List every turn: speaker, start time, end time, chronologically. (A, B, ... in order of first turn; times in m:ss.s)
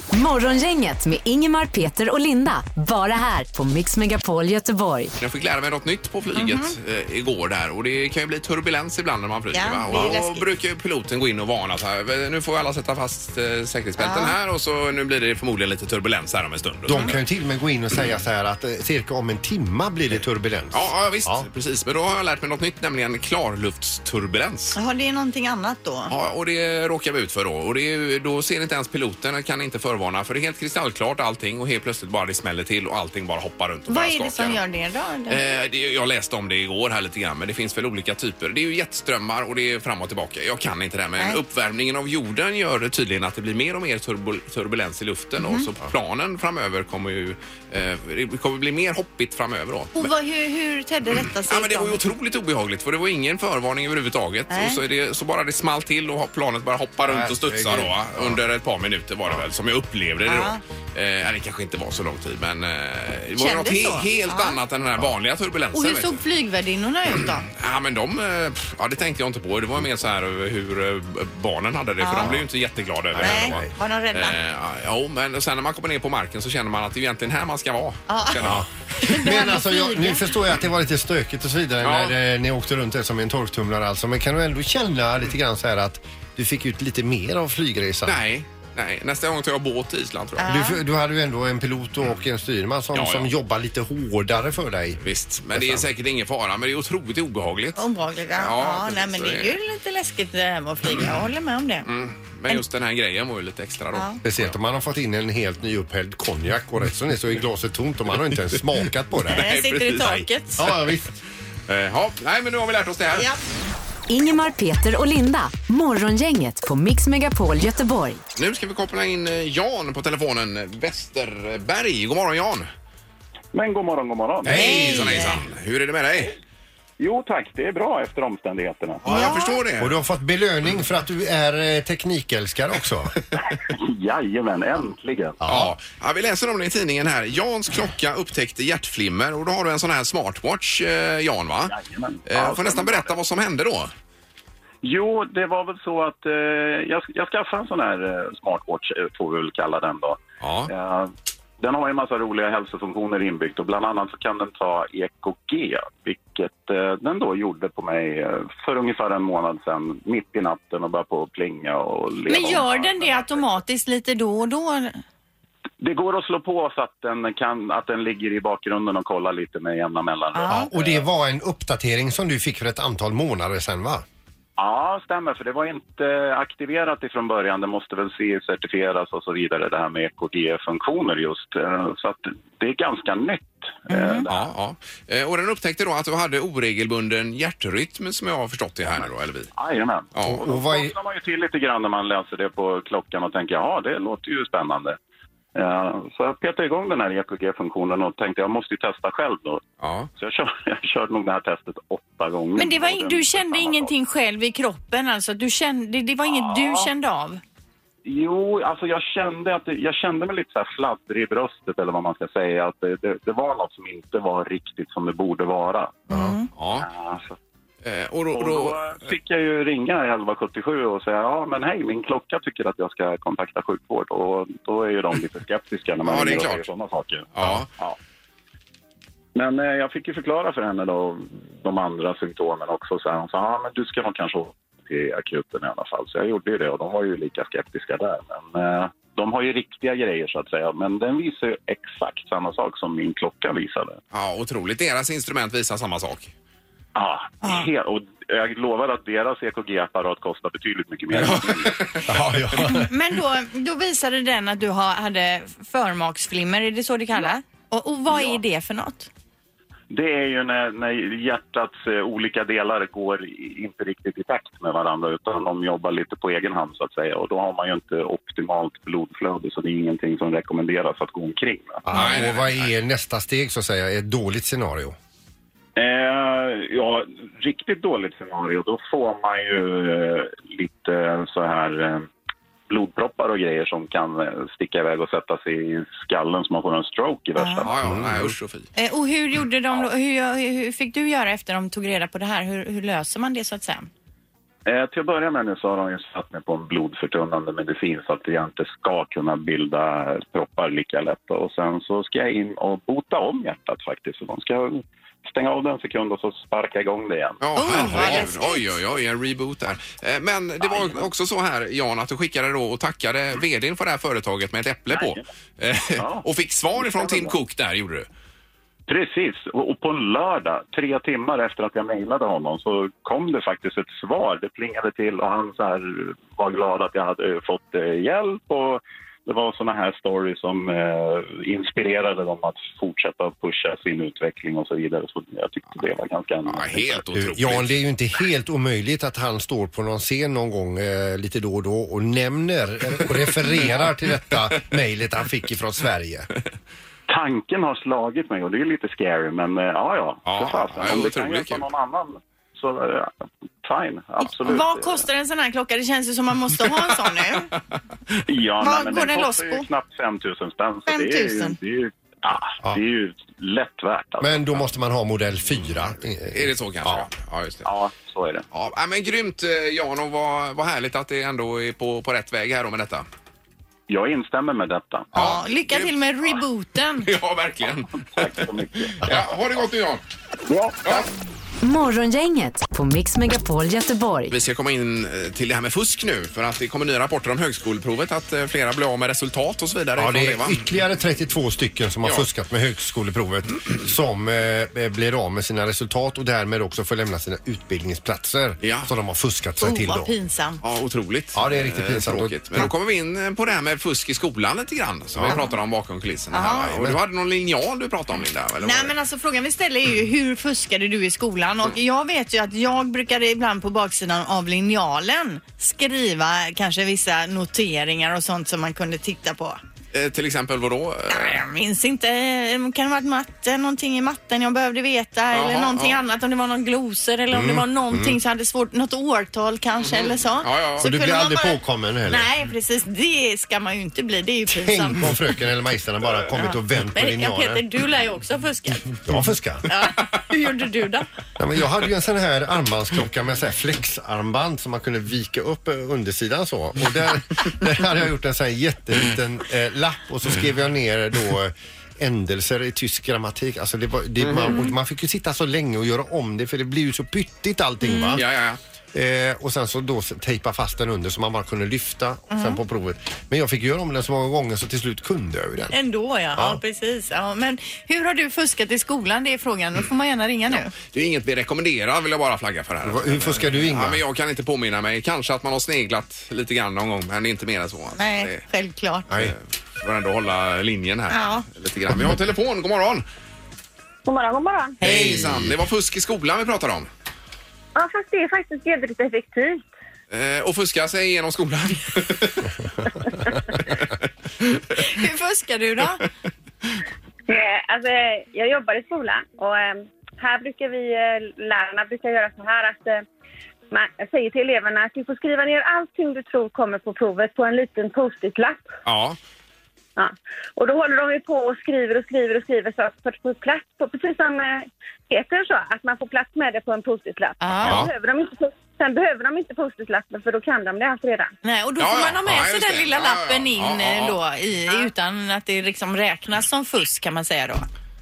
0:00.1-0:05.1 A
0:05.2-0:17.2 B
0:06.4-0:06.8 C
0:09.5-0:10.4 C
0:14.0-0:14.4 C
0:16.9-0:21.4 D
0:20.7-0:24.8 B
0:24.8-0:26.1 C
0:26.1-0:34.6 B
0:33.9-0:35.4 C
0:35.3-0:50.1 B
0:45.4-0:45.7 C
0:50.0-0:52.0 C
0:51.5-1:06.2 B
0:54.5-0:54.8 C
0:57.0-0:58.4 D
1:00.2-1:00.6 C
1:03.4-1:04.6 C
1:05.7-1:07.5 C
1:07.5-1:18.7 B
1:12.0-1:12.4 C
1:13.1-1:13.7 D
1:13.2-1:14.4 C
1:18.1-1:18.4 C
1:18.4-1:28.2 D
1:19.0-1:20.2 C
1:21.8-1:22.1 B
1:28.0-1:30.5 B
1:30.4-1:30.8 C
1:30.4-1:35.0 D
1:32.9-1:33.3 B
1:35.0-1:37.8 B
1:35.5-1:35.9 D
1:37.8-1:41.9 C
1:38.4-1:39.6 B
1:41.9-1:44.5 B
1:43.9-1:44.2 C
1:44.2-1:49.5 D
1:49.3-1:50.7 B
1:49.3-1:50.7 C
1:50.6-1:51.1 D
1:51.7-1:53.3 B
1:53.1-1:53.4 C
1:54.1-1:58.2 A
1:58.4-2:02.7 B
2:03.5-2:05.0 E
2:04.4-2:06.4 B
2:04.5-2:05.4 C
2:04.7-2:05.0 D
2:07.0-2:09.0 E
2:09.0-2:10.0 B
2:09.1-2:09.6 C
2:09.8-2:13.1 D
2:13.6-2:15.4 E
2:15.4-2:15.7 D
2:15.4-2:21.8 B
2:21.7-2:23.1 E
2:22.3-2:23.9 B
2:24.8-2:43.6 E
2:30.4-2:30.7 B
2:42.3-2:45.0 C
2:45.8-2:51.0 E
2:50.4-2:50.7 C
2:50.5-2:54.0 D
2:54.6-3:04.5 E
3:03.9-3:04.2 C
3:04.3-3:09.5 B
3:08.9-3:15.0 E
3:10.2-3:11.0 D
3:15.5-3:19.6 E
3:19.8-3:20.1 B
3:20.2-3:23.9 E
3:22.6-3:27.4 C
3:26.3-3:26.9 E
3:28.0-3:36.0 E
3:36.1-3:36.5 C
3:36.6-3:36.9 B
3:36.8-3:37.4 E
3:37.8-3:38.8 B
3:38.3-3:48.0 E
3:46.0-3:46.6 B
3:47.4-3:47.7 B
3:49.4-4:04.0 E
4:04.1-4:06.3 B
4:07.0-4:11.8 E
4:11.2-4:12.4 B
4:12.1-4:12.9 D
4:12.6-4:19.1 C
4:18.1-4:18.4 E
4:19.9-4:31.8 E
4:31.9-4:35.0 D
4:31.9-4:32.7 B
4:35.8-4:42.1 E
4:42.7-4:47.7 E
4:47.4-4:47.7 C
4:47.6-4:48.7 B
4:47.8-4:48.3 D
4:48.8-4:53.9 C
4:54.6-5:08.3 E
5:07.4-5:18.1 B
5:07.5-5:08.8 C
5:10.6-5:11.0 E
5:14.9-5:15.2 E
5:16.0-5:16.2 E
5:16.8-5:17.4 E
5:18.9-5:37.0 E
5:36.5-5:37.7 B
5:37.2-5:46.3 D
5:47.1-5:55.0 E
5:50.2-5:51.6 B
5:54.4-5:57.5 C
5:58.3-6:04.6 E
5:58.6-5:59.6 C
6:00.9-6:01.6 C
6:04.2-6:07.1 D
6:06.3-6:07.7 B
6:07.6-6:08.4 E
6:08.5-6:13.0 B
6:13.9-6:15.1 E
6:15.2-6:16.4 B
6:15.2-6:17.1 C
6:17.0-6:18.5 B
6:18.1-6:19.0 E
6:19.0-6:20.0 B
6:20.5-6:21.0 E
6:21.6-6:24.3 A
6:24.3-6:30.6 B
6:30.0-6:40.1 D
6:38.6-6:38.9 B
6:39.6-6:40.6 C
6:40.6-6:48.9 B
6:41.3-6:42.7 D
6:45.2-6:45.4 D
6:46.3-6:46.7 C
6:46.4-6:47.0 D
6:48.6-6:59.6 C
6:59.9-7:01.4 B
7:01.1-7:15.1 C
7:05.3-7:06.0 B
7:07.3-7:08.2 D
7:09.8-7:10.9 B
7:10.8-7:12.3 D
7:14.5-7:17.6 D
7:16.4-7:19.0 C
7:19.0-7:19.7 D
7:19.7-7:21.1 C
7:21.4-7:38.2 D
7:34.2-7:34.6 B
7:37.8-7:38.2 C
7:38.2-7:38.6 B
7:38.9-7:45.8 D
7:42.3-7:42.6 C
7:45.7-7:50.7 C
7:46.4-7:46.6 D
7:50.8-7:58.4 B
7:52.8-7:54.0 D
7:58.0-7:59.1 C
7:59.1-8:03.0 B
8:01.1-8:01.5 C
8:04.0-8:04.8 F
8:04.8-8:05.6 D
8:04.8-8:06.9 B
8:07.8-8:09.7 F
8:10.1-8:12.5 B
8:14.8-8:16.0 C
8:17.3-8:23.0 F
8:23.7-8:28.7 F
8:28.8-8:29.2 B
8:30.0-8:41.3 F
8:37.4-8:37.8 C
8:37.6-8:37.9 B
8:41.4-8:47.7 C
8:41.8-8:44.2 B